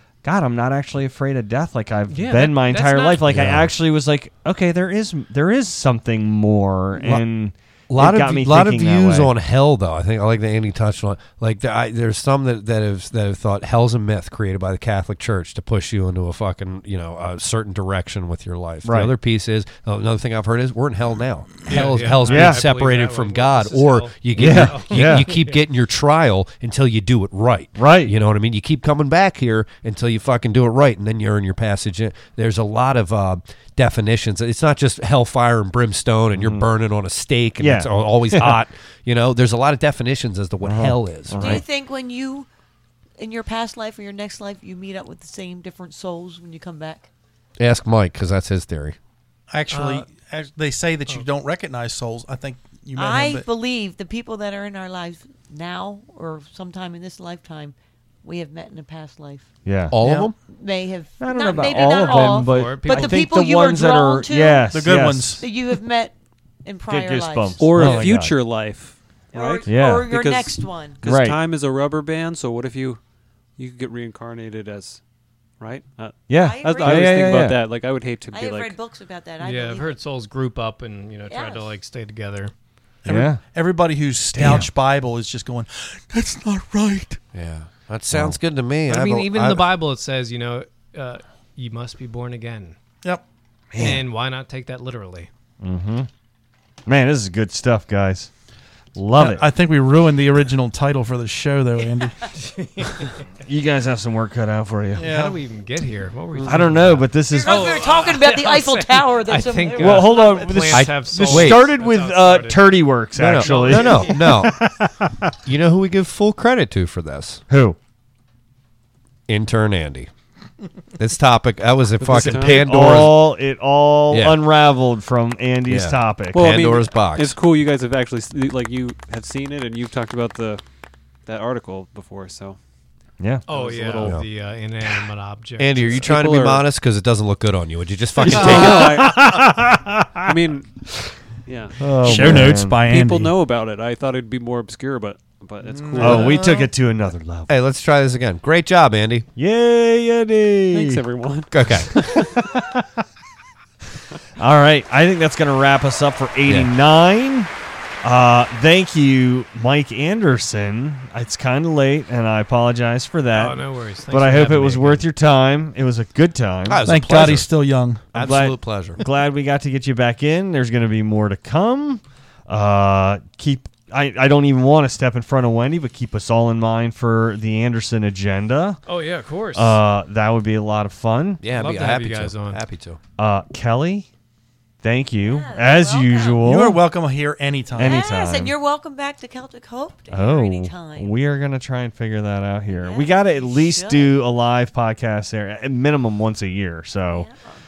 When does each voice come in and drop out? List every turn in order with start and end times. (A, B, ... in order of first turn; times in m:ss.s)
0:00.2-0:09.3 A
0:02.1-0:03.2 B
0:03.3-0:03.7 C
0:07.0-0:07.2 C
0:07.9-0:41.6 C
0:18.8-0:19.1 A
0:21.7-0:25.6 B
0:22.3-0:22.6 A
0:24.4-0:25.3 A
0:27.8-0:28.1 A
0:36.4-0:36.6 A
0:37.6-0:38.6 A
0:40.6-0:41.6 A
0:41.4-0:42.5 D
0:43.2-0:47.1 D
0:47.6-0:49.0 C
0:49.5-0:53.5 E
0:49.7-0:50.1 B
0:53.0-0:59.5 D
0:59.6-1:00.0 A
0:59.9-1:00.3 C
1:00.0-1:00.3 E
1:00.4-1:06.1 D
1:01.2-1:05.4 A
1:01.8-1:03.2 B
1:04.7-1:05.4 E
1:06.6-1:08.0 D
1:06.9-1:08.4 A
1:07.6-1:13.0 F
1:09.3-1:11.0 D
1:09.6-1:10.1 A
1:11.0-1:11.4 A
1:13.6-1:15.0 F
1:15.6-1:18.8 F
1:16.3-1:17.6 A
1:16.3-1:17.5 D
1:18.3-1:20.0 D
1:19.4-1:22.5 B
1:21.3-1:21.7 D
1:23.0-1:27.2 E
1:23.1-1:23.4 A
1:24.3-1:24.7 A
1:27.3-1:29.7 C
1:28.9-1:32.8 B
1:33.7-1:34.0 A
1:33.8-1:35.3 B
1:35.6-1:36.1 A
1:36.8-1:38.3 A
1:39.0-1:39.4 A
1:39.2-1:42.2 E
1:42.4-1:43.2 B
1:43.4-1:45.1 A
1:45.0-1:45.4 E
1:45.0-1:52.8 B
1:46.4-1:47.7 A
1:47.3-1:50.5 D
1:49.8-1:55.3 A
1:50.7-1:51.6 C
1:53.2-1:54.7 C
1:53.4-1:54.2 B
1:55.4-1:57.4 C
1:57.5-1:57.8 A
1:59.3-2:00.1 C
2:01.0-2:03.3 C
2:02.0-2:03.0 F
2:02.0-2:06.5 A
2:04.1-2:04.4 C
2:05.7-2:07.3 C
2:06.3-2:10.6 F
2:11.2-2:12.6 F
2:13.2-2:13.4 A
2:13.5-2:14.2 F
2:13.5-2:16.0 B
2:15.6-2:19.1 C
2:15.9-2:16.6 F
2:18.2-2:20.3 A
2:18.3-2:19.4 F
2:20.2-2:20.7 F
2:21.4-2:26.5 F
2:21.8-2:22.8 A
2:22.0-2:23.4 E
2:25.6-2:26.7 E
2:26.0-2:27.5 A
2:27.5-2:29.3 C
2:29.4-2:31.0 A
2:30.7-2:32.3 F
2:31.5-2:32.6 C
2:34.4-2:37.5 A
2:36.4-2:36.7 C
2:38.0-2:43.6 A
2:43.3-2:45.0 B
2:44.1-2:47.4 A
2:46.7-2:47.5 C
2:46.8-2:48.0 E
2:48.1-2:49.0 C
2:48.1-2:58.8 A
2:58.8-2:59.8 B
2:59.5-3:01.4 A
3:01.4-3:03.0 C
3:01.5-3:02.6 B
3:03.2-3:04.1 A
3:04.8-3:06.8 A
3:05.2-3:06.5 D
3:06.4-3:08.0 E
3:07.8-3:08.6 A
3:07.8-3:11.1 D
3:10.1-3:17.3 A
3:12.7-3:14.2 D
3:17.1-3:17.5 D